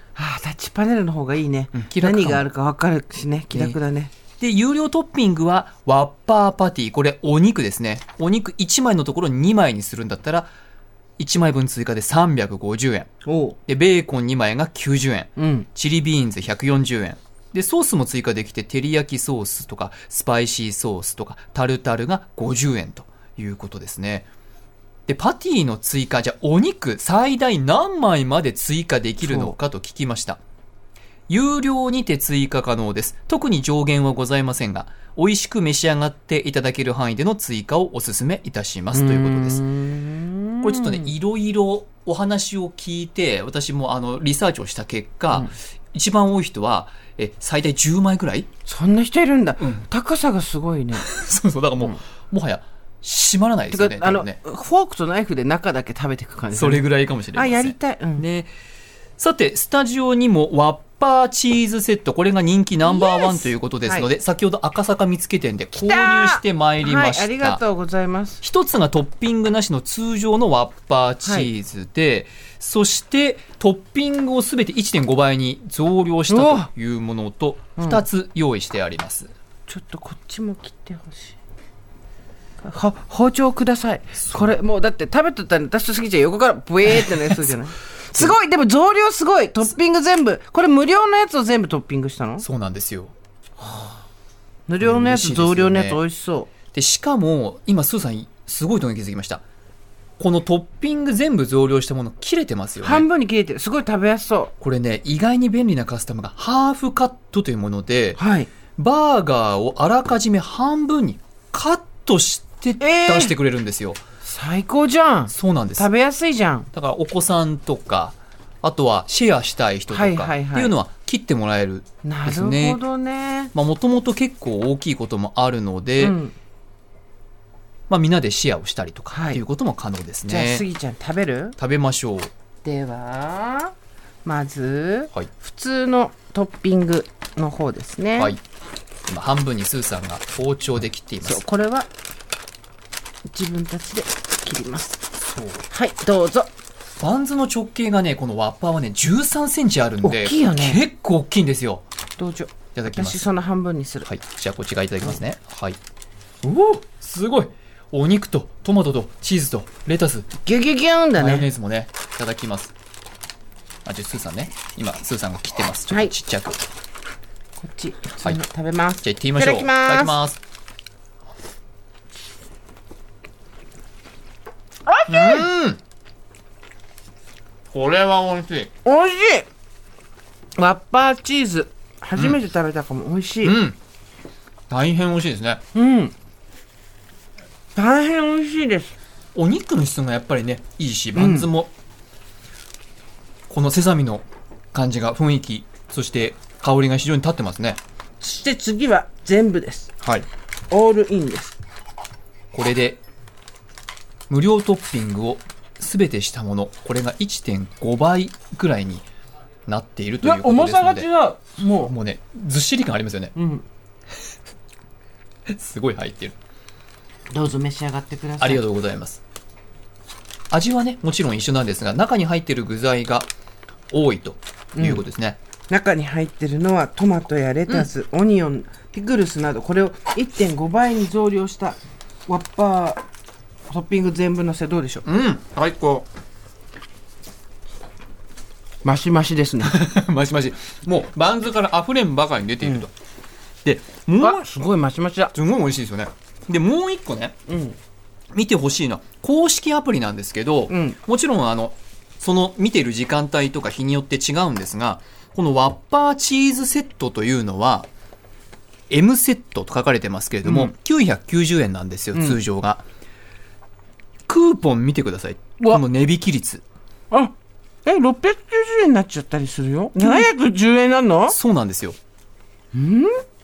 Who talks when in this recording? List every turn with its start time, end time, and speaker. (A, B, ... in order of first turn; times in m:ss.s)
0:00.1-0:04.1 A
0:01.7-0:02.4 B
0:04.4-0:10.5 B
0:11.2-0:13.1 B
0:13.2-0:13.6 A
0:13.7-0:24.3 B
0:15.4-0:15.7 A
0:25.1-0:30.4 B
0:29.2-0:29.6 A
0:31.3-0:39.6 B
0:38.9-0:41.1 A
0:40.6-0:48.5 B
0:48.7-0:51.0 A
0:49.6-0:49.8 B
0:50.9-0:54.4 B
0:53.7-0:58.2 A
0:56.5-0:58.5 B
0:59.2-1:07.6 B
1:02.8-1:04.1 A
1:05.7-1:08.4 A
1:08.4-1:19.3 B
1:11.2-1:11.5 A
1:16.3-1:16.7 A
1:19.7-1:21.4 A
1:22.6-1:32.4 A
1:24.2-1:24.5 B
1:32.4-1:33.1 B
1:33.6-1:34.0 A
1:34.7-1:36.5 A
1:34.8-1:36.0 B
1:36.7-1:39.4 B
1:40.2-1:43.0 B
1:42.8-1:44.5 A
1:44.6-1:48.2 B
1:48.2-1:48.5 A
1:48.8-1:54.0 B
1:52.8-1:53.4 A
1:54.2-1:56.7 A
1:55.3-1:55.9 B
1:56.7-2:02.8 B
1:59.9-2:00.8 A
2:02.0-2:03.5 A
2:03.5-2:06.2 B
2:06.0-2:06.3 A
2:07.9-2:10.6 B
2:09.1-2:09.4 A
2:10.3-2:11.6 A
2:11.6-2:12.3 B
2:12.6-2:13.7 A
2:14.2-2:18.4 A
2:19.1-2:21.4 B
2:21.2-2:21.9 A
2:23.3-2:25.0 A
2:25.2-2:25.6 B
2:25.7-2:26.5 A
2:27.0-2:31.8 B
2:30.0-2:30.8 A
2:32.2-2:34.1 A
2:32.7-2:33.3 B
2:34.0-2:35.8 B
2:36.4-2:40.3 B
2:40.4-2:41.5 A
2:41.2-2:42.7 B
2:43.8-2:46.6 B
2:47.6-2:50.2 A
2:49.0-2:50.4 B
2:54.9-2:55.5 A
2:55.1-2:55.8 B
2:57.7-2:58.7 B
2:58.8-2:59.5 A
3:00.6-3:03.6 A
3:03.4-3:03.8 B
3:04.7-3:05.6 B
3:05.7-3:06.1 A
3:07.7-3:08.9 A
3:09.3-3:11.7 B
3:11.2-3:11.5 A
3:13.5-3:17.8 B
3:18.2-3:19.9 A
3:20.7-3:21.6 A
3:22.5-3:23.0 B
3:24.3-3:29.1 B
3:29.7-3:31.1 B
3:30.2-3:31.9 A
3:31.7-3:33.3 B
3:33.3-3:33.6 A
3:35.5-3:36.4 B
3:37.3-3:38.6 A
3:38.4-3:39.2 B
3:40.5-3:43.3 B
3:43.9-3:45.4 B
3:44.8-3:45.0 A
3:45.7-3:53.0 A
3:53.7-3:55.0 A
3:55.0-3:56.1 B
3:58.8-3:59.8 A
3:59.6-4:02.9 B
4:03.6-4:04.4 B
4:04.2-4:05.3 A
4:05.3-4:07.4 B
4:07.5-4:07.8 A
4:08.3-4:17.9 B
4:10.7-4:11.0 A
4:18.9-4:22.8 B
4:20.4-4:20.7 A
4:22.1-4:22.4 A
4:24.3-4:26.6 B
4:27.8-4:31.4 A
4:30.0-4:30.3 B
4:31.3-4:32.0 B
4:32.7-4:33.2 A